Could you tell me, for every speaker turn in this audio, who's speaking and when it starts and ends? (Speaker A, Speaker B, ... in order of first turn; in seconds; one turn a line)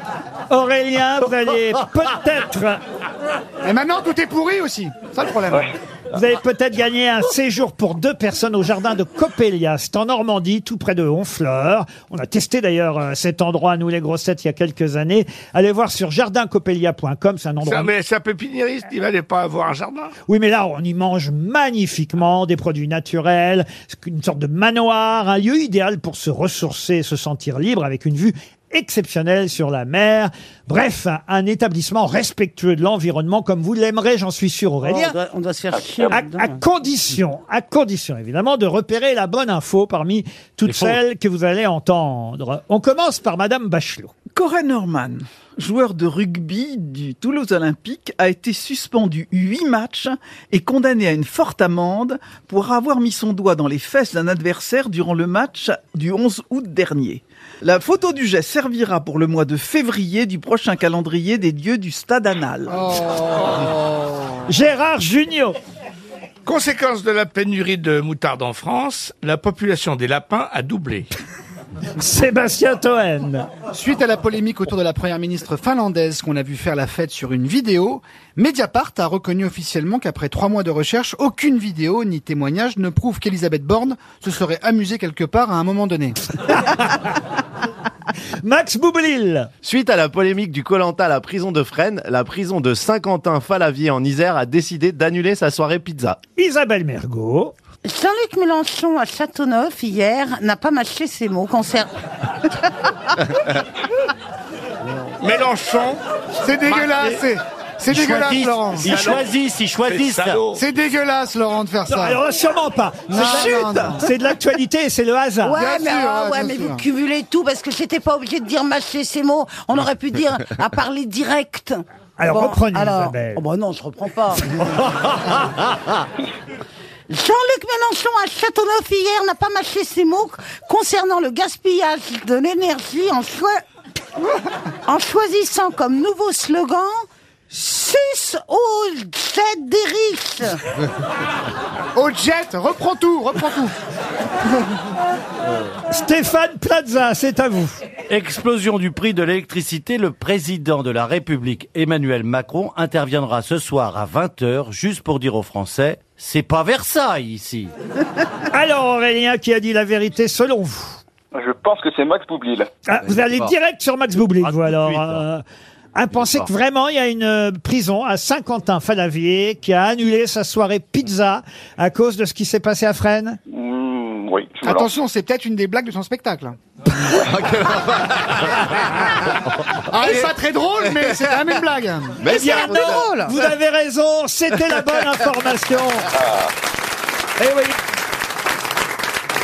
Speaker A: 0.5-2.8
Speaker B: 3.6-5.7
Speaker A: 6.1-17.9
Speaker C: 17.6-20.1
Speaker A: 20.3-35.2
Speaker D: 34.8-36.6
Speaker E: 35.8-36.1
Speaker A: 36.1-44.1
Speaker F: 40.7-41.0
Speaker G: 44.3-62.8
Speaker B: 62.7-64.4
Speaker A: 64.5-65.6
Speaker C: 66.5-71.1
Speaker A: 72.0-73.5
Speaker B: 73.7-86.2
Speaker A: 86.5-87.2
Speaker A: 88.4-89.5
Speaker H: 89.6-96.2
Speaker A: 96.4-97.5
Speaker D: 97.8-102.0
Speaker C: 105.2-106.0
Speaker B: 106.4-109.0
Speaker C: 106.7-107.2
Speaker F: 107.9-110.5
Speaker C: 108.8-109.3
Speaker C: 109.9-110.6
Speaker B: 110.5-112.2
Speaker A: 111.9-115.6
Speaker B: 113.1-114.0
Speaker G: 113.1-114.1
Speaker D: 115.4-124.6
Speaker B: 115.5-116.8
Speaker A: 122.2-123.4
Speaker D: 127.1-133.6
Speaker D: 134.9-140.6
Speaker B: 141.9-143.8
Speaker A: 145.9-147.8
Speaker F: 148.1-157.7
Speaker A: 158.5-161.0
Speaker E: 161.3-162.7
Speaker A: 162.9-165.4
Speaker F: 164.4-165.2
Speaker A: 165.9-173.4
Speaker E: 173.5-174.9
Speaker B: 174.6-176.6
Speaker H: 177.0-179.1
Speaker B: 179.9-183.3
Speaker H: 180.0-181.4
Speaker H: 182.2-183.4
Speaker A: 182.3-186.1
Speaker E: 186.2-186.5
Speaker A: 187.4-187.8